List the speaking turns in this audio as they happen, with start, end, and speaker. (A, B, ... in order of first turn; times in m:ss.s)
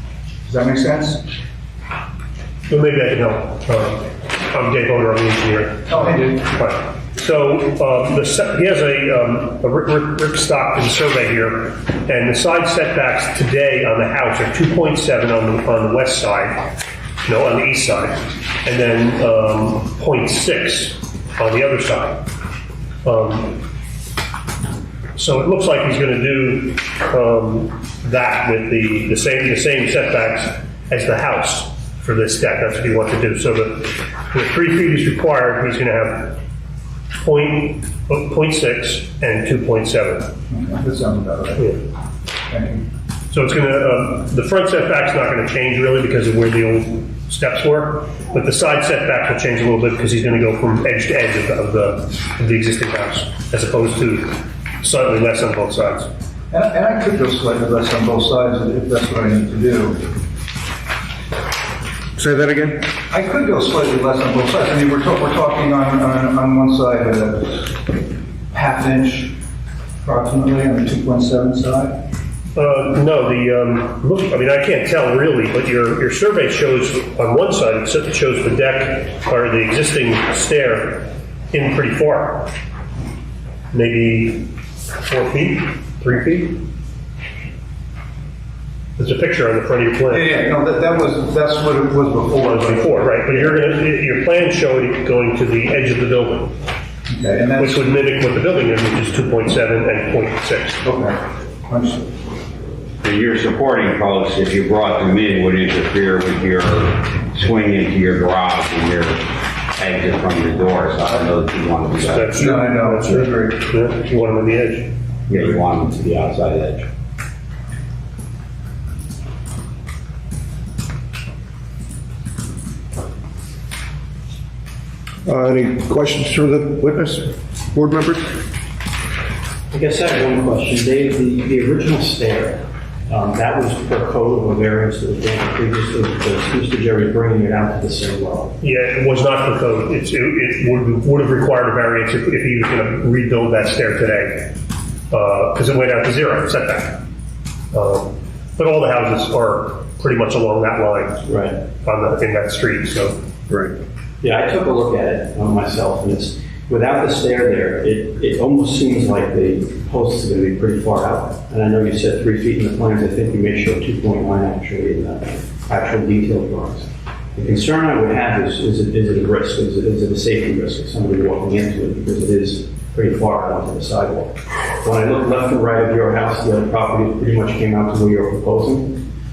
0:00.5-0:01.2 A
0:02.7-0:16.7 B
0:05.9-0:06.4 A
0:17.2-0:22.3 B
0:23.0-0:23.6 B
0:25.2-0:36.4 B
0:37.2-0:40.3 B
0:40.5-0:41.8 A
0:42.5-0:42.8 A
0:43.3-0:56.1 B
0:56.5-1:00.1 A
1:02.2-1:02.9 C
1:02.9-1:07.8 A
1:08.5-1:09.3 A
1:10.0-1:12.0 A
1:12.6-1:22.5 B
1:23.7-1:24.5 B
1:25.0-1:26.6 B
1:29.0-1:30.4 B
1:30.1-1:33.5 A
1:32.4-1:36.5 B
1:37.1-1:37.9 A
1:37.6-1:40.8 B
1:40.8-1:42.1 A
1:43.0-1:52.5 D
1:52.0-1:54.9 B
1:52.4-1:53.6 A
1:55.3-1:56.9 D
2:05.3-2:08.3 C
2:09.7-2:18.6 E
2:18.6-2:24.5 B
2:25.1-2:27.0 B
2:27.7-2:31.2 B
2:31.2-2:31.6 E
2:31.8-2:33.2 B
2:34.2-2:59.0 E